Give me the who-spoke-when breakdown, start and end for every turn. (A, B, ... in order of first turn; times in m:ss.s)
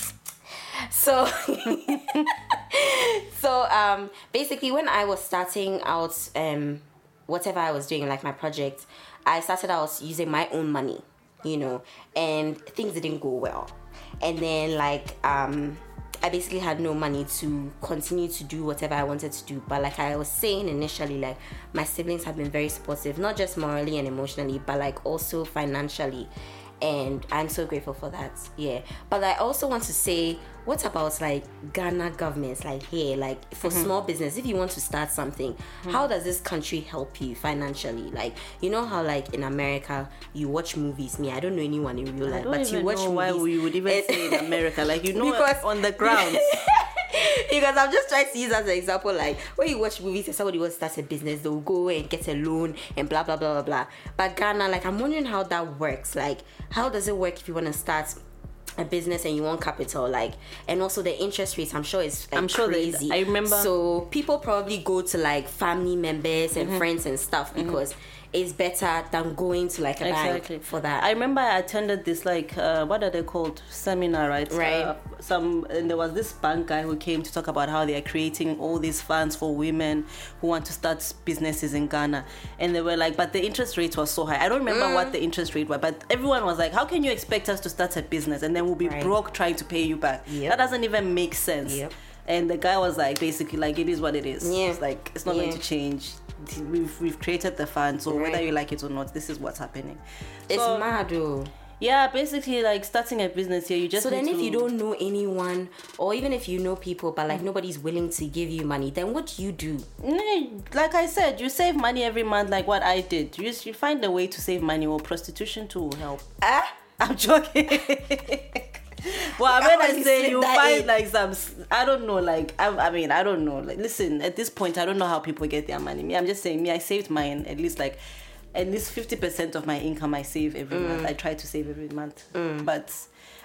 0:00.5-0:58.2 A
0:01.9-0:02.2 B
0:33.6-0:33.9 B
0:42.2-0:46.6 B
0:58.8-1:11.1 A
1:02.3-1:03.7 B
1:06.6-1:06.9 B
1:07.5-1:07.8 B
1:10.0-1:40.9 B
1:14.5-1:14.9 A
1:24.7-1:25.1 A
1:28.8-1:29.1 A
1:30.3-1:30.6 A
1:31.6-1:31.9 A
1:34.4-1:35.6 A
1:38.1-1:38.4 A
1:40.5-1:41.5 A
1:41.8-1:44.7 B
1:43.9-1:49.9 A
1:50.0-1:56.2 B
1:56.4-1:56.7 A
1:57.0-2:08.0 B
1:59.2-2:00.9 A
2:08.5-2:13.1 B
2:10.7-2:11.1 A
2:12.3-2:12.7 A